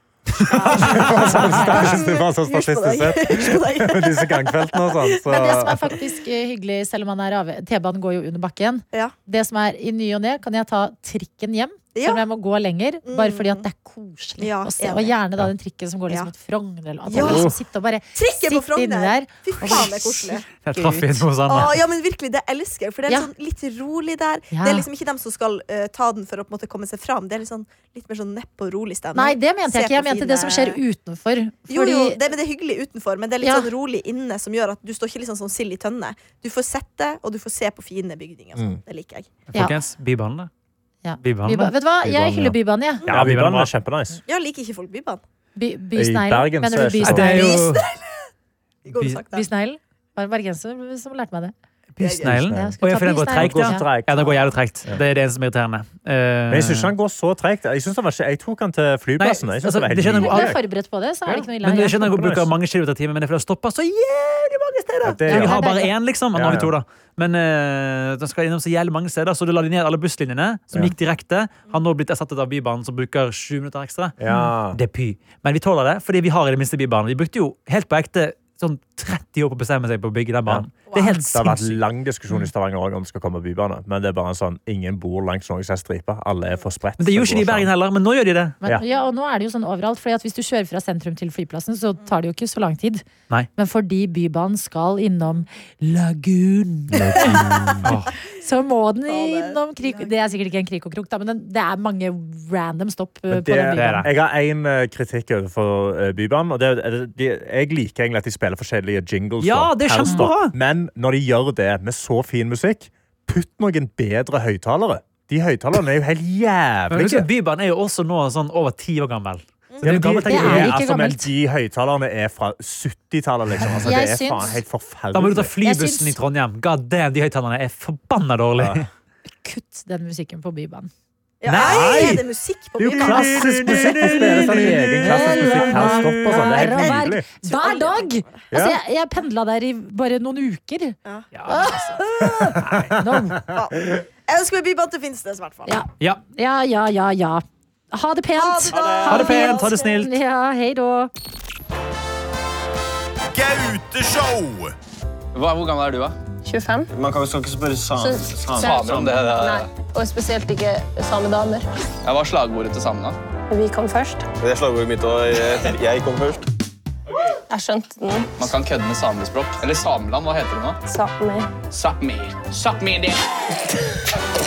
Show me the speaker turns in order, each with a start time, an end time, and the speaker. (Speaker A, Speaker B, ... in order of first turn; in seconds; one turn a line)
Speaker A: 0.4-5.8
Speaker B: 0.4-5.8
Speaker C: 5.3-21.3
Speaker B: 11.9-12.2
Speaker B: 13.1-13.7
Speaker B: 14.4-15.1
Speaker B: 17.1-17.5
Speaker A: 17.1-17.5
Speaker B: 18.1-20.5
Speaker D: 20.6-21.8
Speaker B: 21.5-30.8
Speaker C: 24.5-24.9
Speaker C: 29.1-32.2
Speaker B: 31.7-39.3
Speaker C: 33.4-33.7
Speaker D: 39.5-40.5
Speaker C: 41.0-43.1
Speaker D: 41.2-41.7
Speaker A: 42.0-42.6
Speaker D: 43.1-43.7
Speaker A: 43.1-44.2
Speaker B: 44.3-45.2
Speaker C: 45.6-47.7
Speaker A: 46.0-47.6
Speaker D: 47.0-47.9
Speaker B: 47.7-48.3
Speaker B: 48.9-49.5
Speaker D: 48.9-49.2
Speaker C: 49.3-51.5
Speaker D: 52.0-56.9
Speaker B: 52.0-52.4
Speaker A: 52.2-52.8
Speaker C: 52.5-53.9
Speaker A: 53.4-55.0
Speaker A: 56.5-60.6
Speaker D: 59.2-60.6
Speaker C: 60.2-62.4
Speaker D: 61.3-74.2
Speaker A: 65.0-65.7
Speaker C: 65.3-65.9
Speaker A: 66.3-66.7
Speaker A: 74.2-74.8
Speaker C: 74.3-74.5
Speaker D: 74.7-81.8
Speaker C: 81.0-81.2
Speaker A: 81.3-87.7
Speaker D: 87.0-88.6
Speaker C: 88.6-97.5
Speaker A: 96.9-97.9
Speaker B: 97.2-97.9
Speaker D: 97.6-98.1
Speaker C: 98.3-104.1
Speaker B: 99.1-100.2
Speaker A: 103.3-117.3
Speaker D: 103.8-104.1
Speaker D: 109.4-110.5
Speaker D: 116.9-120.7
Speaker B: 119.7-120.0
Speaker A: 119.8-125.5
Speaker C: 120.3-121.3
Speaker C: 123.8-124.6
Speaker D: 125.1-128.9
Speaker C: 125.6-126.2
Speaker A: 128.6-128.9
Speaker C: 129.4-130.9
Speaker B: 131.4-133.8
Speaker D: 131.4-132.2
Speaker A: 131.5-132.3
Speaker A: 132.8-137.2
Speaker D: 133.0-136.6
Speaker C: 133.4-141.0
Speaker B: 136.8-138.4
Speaker A: 138.5-138.8
Speaker D: 141.3-142.0
Speaker C: 141.5-143.4
Speaker A: 142.4-143.7
Speaker B: 143.5-145.7
Speaker C: 145.7-151.1
Speaker B: 148.4-149.9
Speaker D: 149.1-150.1
Speaker E: 153.3-154.8
Speaker F: 155.3-156.2
Speaker G: 156.4-156.9
Speaker E: 156.9-159.2
Speaker G: 157.9-161.7
Speaker F: 158.6-159.7
Speaker F: 162.1-163.2
Speaker G: 163.5-164.3
Speaker E: 164.4-166.4
Speaker G: 167.5-168.5
Speaker F: 168.4-170.8
Speaker G: 170.9-171.5
Speaker F: 171.7-173.2